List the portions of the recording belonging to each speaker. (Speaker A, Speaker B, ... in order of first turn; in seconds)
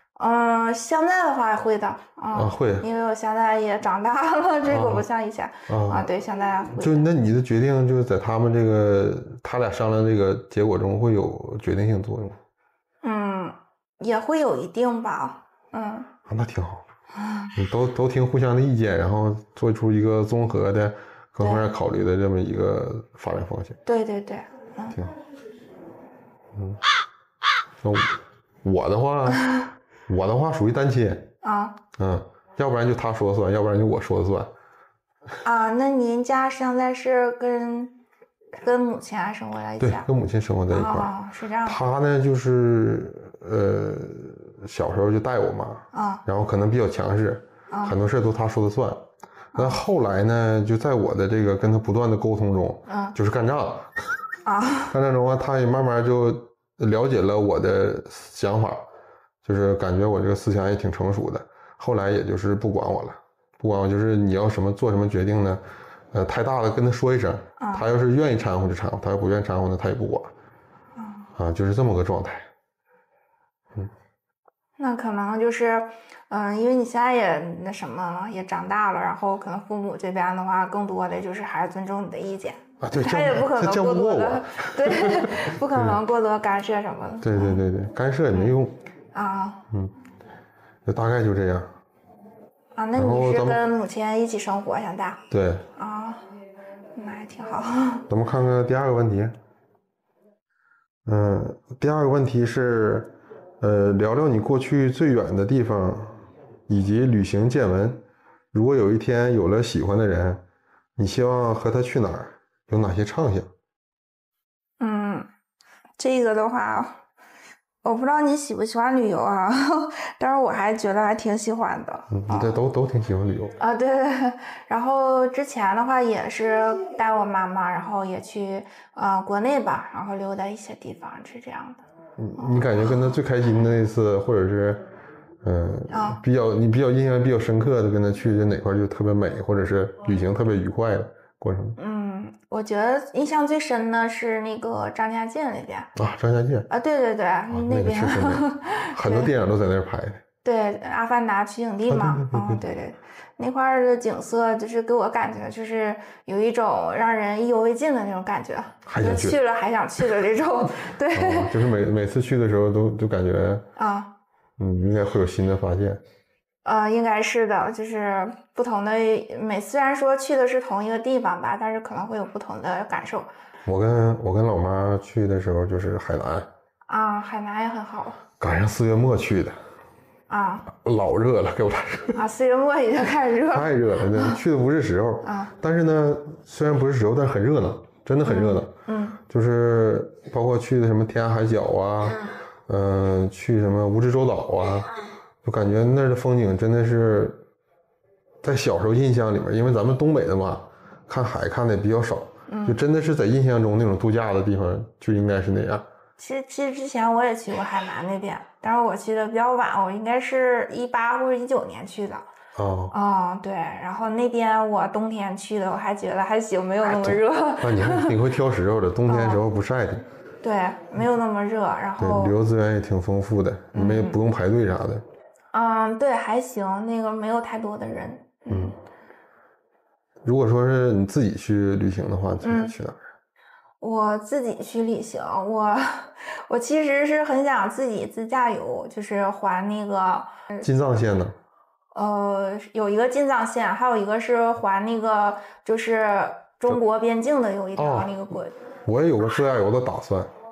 Speaker A: 0.2-7.1, 13.0-16.1, 17.1-17.5, 21.4-21.7, 23.9-25.0, 31.4-31.8, 35.4-38.0, 38.6-40.1, 40.7-41.8, 45.9-46.2, 49.5-49.8, 52.9-53.1, 54.5-54.9, 67.6-67.8, 71.0-71.3, 74.8-87.6, 89.1-89.6, 92.8-95.2, 95.8-96.2, 97.0-98.0, 114.8-115.3, 116.0-117.0, 117.8-122.6, 123.6-131.8, 132.4-133.1, 135.9-136.2, 141.8-145.9, 146.7-149.3, 150.4-161.5, 163.8-164.1, 166.6-173.3, 176.9-178.2, 180.3-180.7, 182.1-184.3, 185.2-185.5, 188.2-189.2, 202.5-202.8, 206.2-212.2, 212.9-218.2, 219.1-219.4, 220.4-222.3, 223.7-224.2, 225.5-228.7, 232.4-232.7, 233.8-240.7, 241.9-248.5
Speaker B: 2.3-2.9, 4.6-5.0, 5.7-6.1, 6.7-12.4, 16.3-16.8, 17.5-23.8, 26.5-26.8, 27.8-31.3, 32.0-34.5, 39.8-41.1, 41.6-54.0, 54.9-58.9, 59.4-70.3, 71.3-72.5, 82.8-86.0, 87.2-88.8, 90.8-91.7, 92.9-93.6, 95.3-95.6, 98.1-99.3, 101.0-110.4, 111.0-113.5, 122.1-123.5, 132.2-134.9, 135.4-141.8, 145.9-146.7, 147.5-150.2, 151.9-152.6, 158.8-159.4, 161.1-163.6, 164.6-166.0, 173.7-176.5, 178.4-179.6, 180.7-182.2, 183.5-188.7, 189.2-194.9, 195.4-197.4, 198.4-205.8, 212.5-212.9, 216.8-220.1, 222.0-225.1, 228.5-228.7, 230.2-233.0, 240.6-241.3, 247.8-248.1, 248.8-250.3